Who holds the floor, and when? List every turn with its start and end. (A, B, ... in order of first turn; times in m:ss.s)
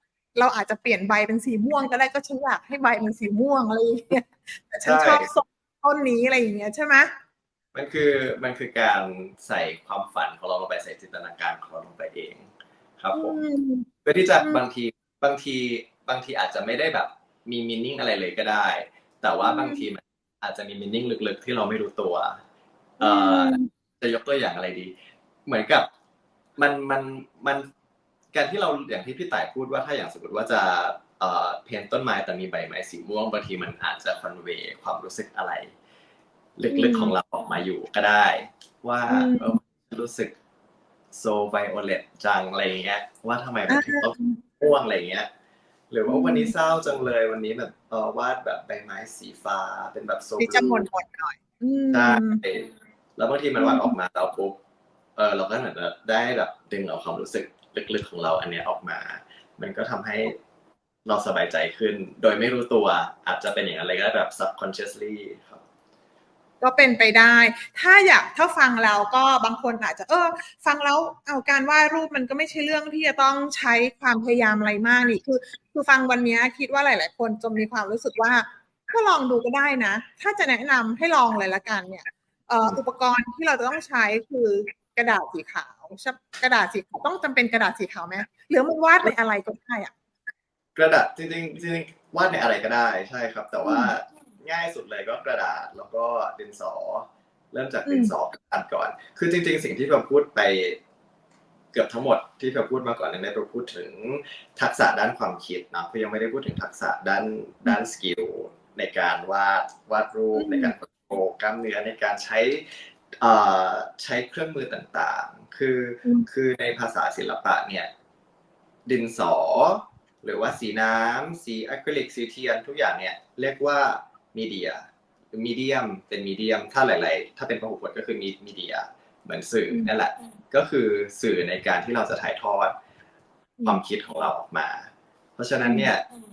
0:00.4-0:07.1 A
0:04.8-0:05.3 B
0:07.7-0:13.4 B
0:13.1-0:14.6 A
0:14.0-0:22.4 B
0:19.4-0:19.9 A
0:23.0-0:24.9 B
0:23.0-0:23.7 A
0:25.5-0:25.9 B
0:26.6-0:27.7 B
0:28.3-0:35.7 B
0:36.6-0:40.3 B
0:36.7-0:37.2 A
0:39.1-0:39.6 A
0:41.1-0:45.3 B
0:43.7-0:44.4 A
0:45.9-0:50.9 B
0:46.1-0:46.5 A
0:50.4-0:52.4 A
0:51.9-0:54.6 B
0:53.6-0:53.9 A
0:55.2-1:00.4 B
1:01.0-1:05.6 B
1:06.6-1:29.9 A
1:30.8-1:40.8 B
1:33.6-1:33.9 A
1:37.9-1:38.1 A
1:41.7-1:57.9 B
1:50.4-1:50.7 A
1:58.9-2:12.8 B
2:13.6-2:16.1 B
2:15.6-2:15.9 A